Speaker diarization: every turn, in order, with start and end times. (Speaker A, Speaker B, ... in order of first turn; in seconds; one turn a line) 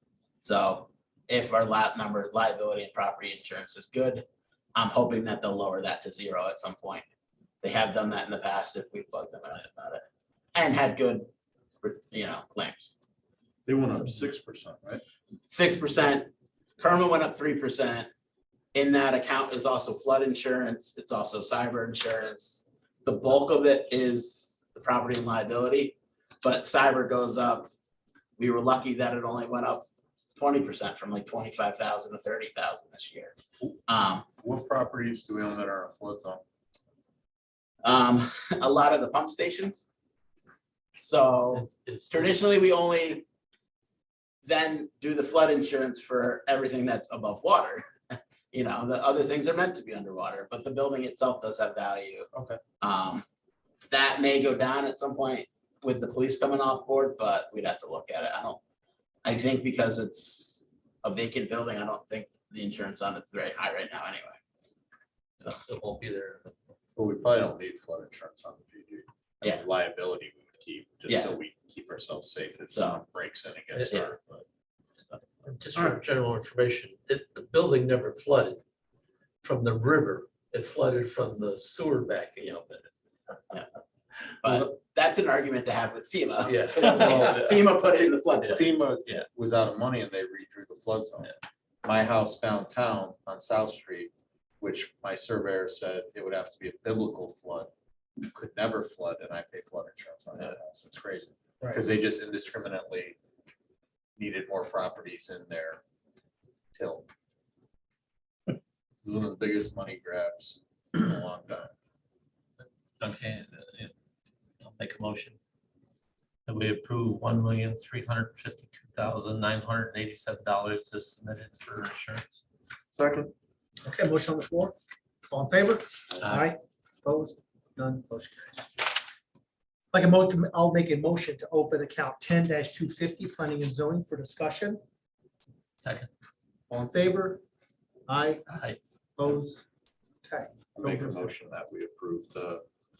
Speaker A: 0.4-7.0
Speaker A: 7.6-11.3
Speaker A: 11.8-12.9
Speaker B: 13.7-15.0
Speaker A: 15.5-18.1
Speaker A: 18.7-27.7
Speaker A: 28.4-33.4
Speaker A: 33.9-34.3
Speaker B: 34.4-36.4
Speaker A: 37.8-39.9
Speaker A: 41.0-43.2
Speaker C: 41.5-42.3
Speaker A: 44.5-52.3
Speaker B: 52.3-52.6
Speaker A: 52.8-53.2
Speaker A: 53.9-58.6
Speaker A: 59.2-64.4
Speaker C: 65.4-66.5
Speaker B: 67.0-74.5
Speaker A: 71.1-71.3
Speaker A: 72.7-73.0
Speaker C: 73.7-74.0
Speaker C: 75.4-78.6
Speaker C: 79.4-82.9
Speaker A: 84.4-88.6
Speaker C: 86.4-87.7
Speaker B: 86.8-87.4
Speaker C: 88.4-89.2
Speaker B: 88.4-91.3
Speaker B: 91.8-97.7
Speaker B: 98.2-103.2
Speaker B: 104.2-105.8
Speaker B: 106.7-107.1
Speaker B: 109.0-111.7
Speaker C: 112.6-113.9
Speaker C: 114.6-115.4
Speaker C: 116.5-122.2
Speaker B: 122.9-123.3
Speaker D: 123.8-124.7
Speaker D: 125.3-128.7
Speaker C: 126.2-126.5
Speaker D: 129.9-134.8
Speaker C: 135.8-136.1
Speaker D: 136.7-137.4
Speaker D: 138.1-138.4
Speaker C: 138.5-138.8
Speaker D: 139.2-139.6
Speaker D: 140.2-141.3
Speaker B: 140.8-142.6